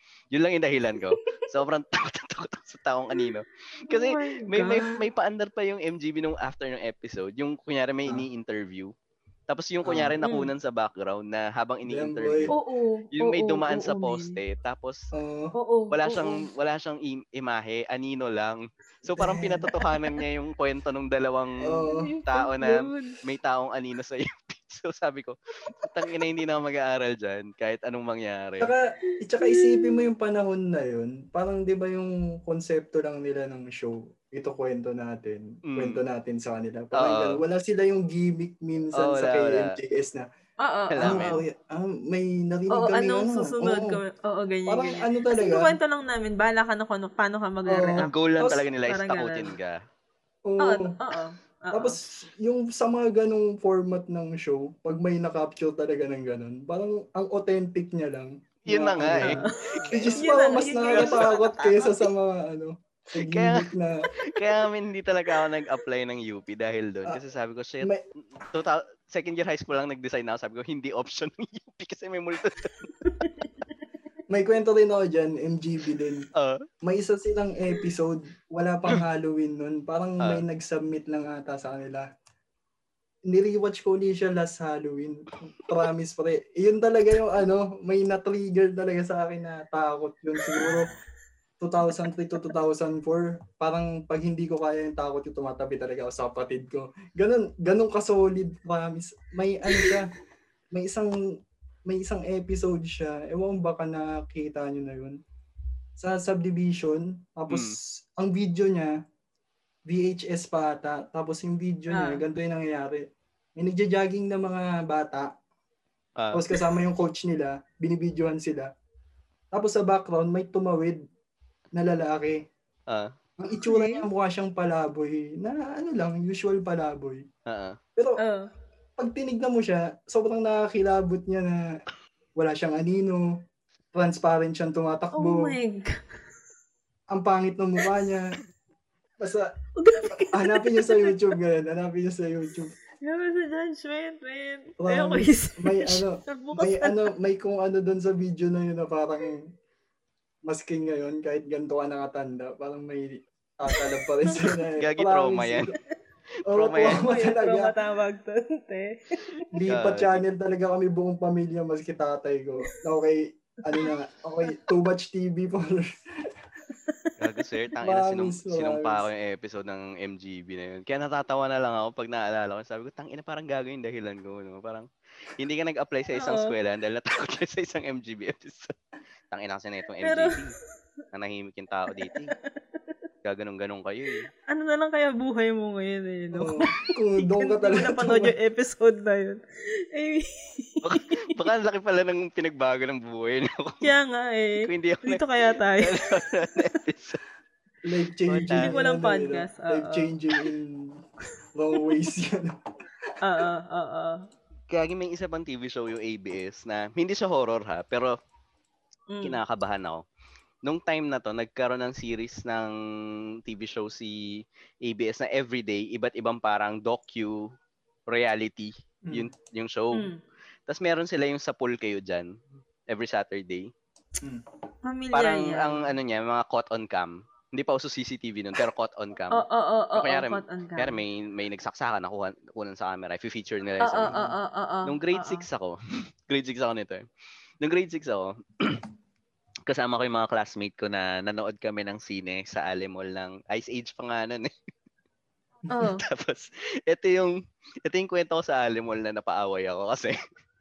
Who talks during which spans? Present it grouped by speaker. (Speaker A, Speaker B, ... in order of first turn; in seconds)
Speaker A: 0.3-8.9, 9.5-12.6, 13.1-15.1, 15.9-28.7, 35.7-36.0, 36.9-37.4, 39.0-39.8, 40.9-41.4, 48.0-49.8, 58.6-60.3, 60.9-61.3, 63.1-63.7, 64.3-72.9, 76.3-76.6, 107.5-107.8, 116.2-116.4, 122.9-123.1, 127.5-127.8, 154.8-155.7, 156.5-157.0, 159.7-160.2, 167.2-178.7, 179.3-180.5, 181.1-182.3, 183.2-184.2, 190.8-193.9, 194.6-197.2, 198.3-198.7, 204.7-208.1, 209.2-210.0, 210.6-212.7, 213.4-217.5, 218.1-220.1, 220.7-222.3, 222.9-223.7, 225.1-234.2, 234.8-235.8, 236.3-237.0, 237.6-238.8, 239.7-244.5, 245.8-247.3, 247.8-250.2
Speaker B: 1.0-1.2, 3.9-5.0, 10.2-10.5, 12.5-14.4, 15.5-16.4, 19.7-20.2, 21.8-23.2, 29.4-30.0, 40.6-41.4, 42.7-48.2, 48.9-49.5, 50.6-52.0, 59.2-62.1, 73.0-73.6, 90.4-90.8, 99.7-100.0, 111.9-112.2, 123.6-124.1, 128.2-128.5, 135.1-136.0, 139.8-141.3, 143.0-147.0, 153.7-154.6, 156.8-159.5, 166.8-167.2, 176.1-176.5, 180.0-180.4, 181.9-182.9, 184.5-189.4, 189.9-191.3, 193.8-196.7, 198.5-200.1, 201.8-202.0, 203.2-204.2, 209.1-209.4, 219.9-220.2, 224.8-225.9, 229.3-231.0, 233.8-235.4, 245.7-246.0
Speaker C: 9.8-10.2, 11.8-12.5, 15.1-15.5, 19.1-19.7, 21.6-22.1, 28.6-40.2, 41.0-44.0, 44.7-45.8, 47.7-48.6, 50.5-50.9, 51.7-64.0, 74.3-76.3, 76.8-82.0, 83.3-90.9, 91.6-100.1, 100.7-101.1, 101.9-105.2, 106.0-108.9, 109.9-113.0, 113.6-115.3, 116.3-118.7, 119.5-121.0, 121.7-122.4, 123.4-127.2, 129.0-131.6, 132.3-133.3, 133.9-135.6, 137.1-138.3, 139.2-139.5, 140.2-142.7, 144.8-149.5, 150.4-155.7, 156.5-157.7, 159.5-166.3, 167.8-169.1, 186.3-188.3, 197.8-201.0, 201.5-202.6, 234.0-234.3